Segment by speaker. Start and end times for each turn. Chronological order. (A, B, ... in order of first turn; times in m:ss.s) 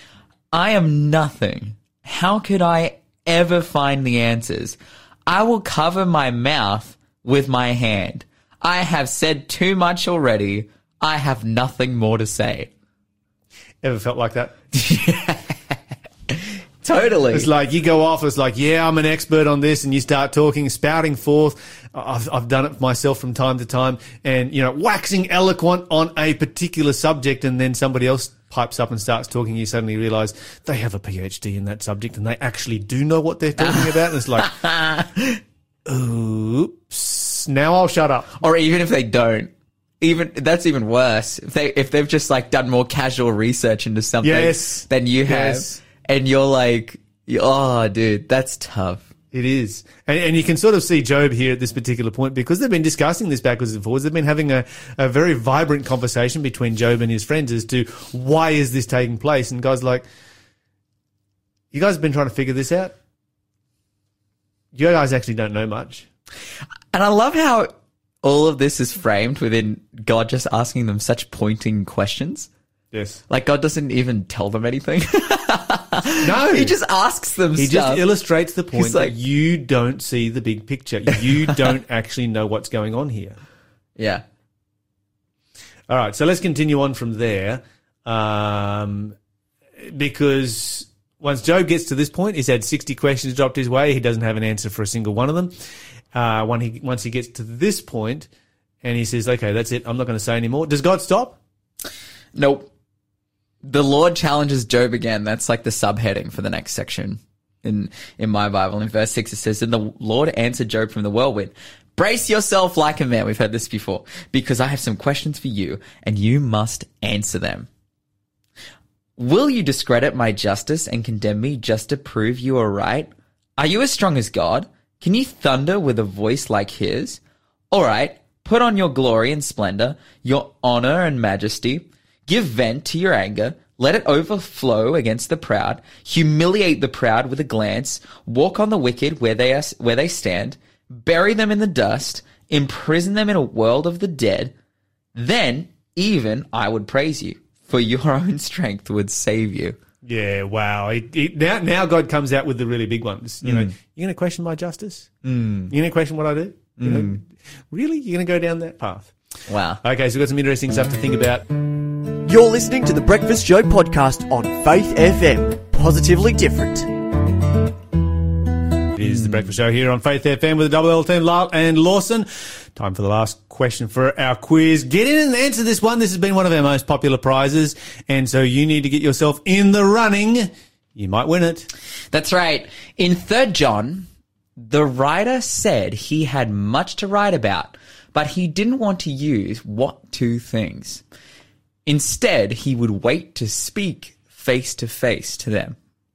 0:00.5-0:12.7 A
0:13.8-0:14.6 B
0:14.7-0:15.8 A
0:16.3-0:17.5 A
0:17.3-0:34.6 B
0:33.6-0:35.4 A
0:35.9-0:38.3 B
0:38.4-0:49.1 A
0:44.2-0:45.8 B
0:49.3-1:00.0 B
1:01.7-1:02.9 B
1:04.7-1:06.1 B
1:06.9-1:07.7 A
1:08.2-1:12.5 A
1:12.9-1:13.2 B
1:13.3-1:18.0 A
1:16.2-1:16.8 B
1:17.6-1:23.4 B
1:18.7-1:19.2 A
1:21.1-1:21.8 A
1:24.0-1:24.2 A
1:25.9-1:29.2 B
1:29.8-1:35.5 B
1:36.1-1:38.3 B
1:38.8-1:41.4 B
1:42.4-1:42.7 A
1:43.6-1:57.7 A
1:59.2-2:07.2 A
2:07.7-2:24.5 A
2:25.2-2:29.8 A
2:30.0-2:35.1 B
2:33.4-2:33.7 A
2:35.2-2:35.7 A
2:35.7-2:39.1 B
2:36.8-2:37.2 A
2:39.5-2:39.8 A
2:39.8-2:41.4 B
2:42.2-2:46.9 C
2:49.0-3:01.7 B
2:49.0-2:49.5 A
3:02.1-3:11.0 A
3:11.9-3:15.8 A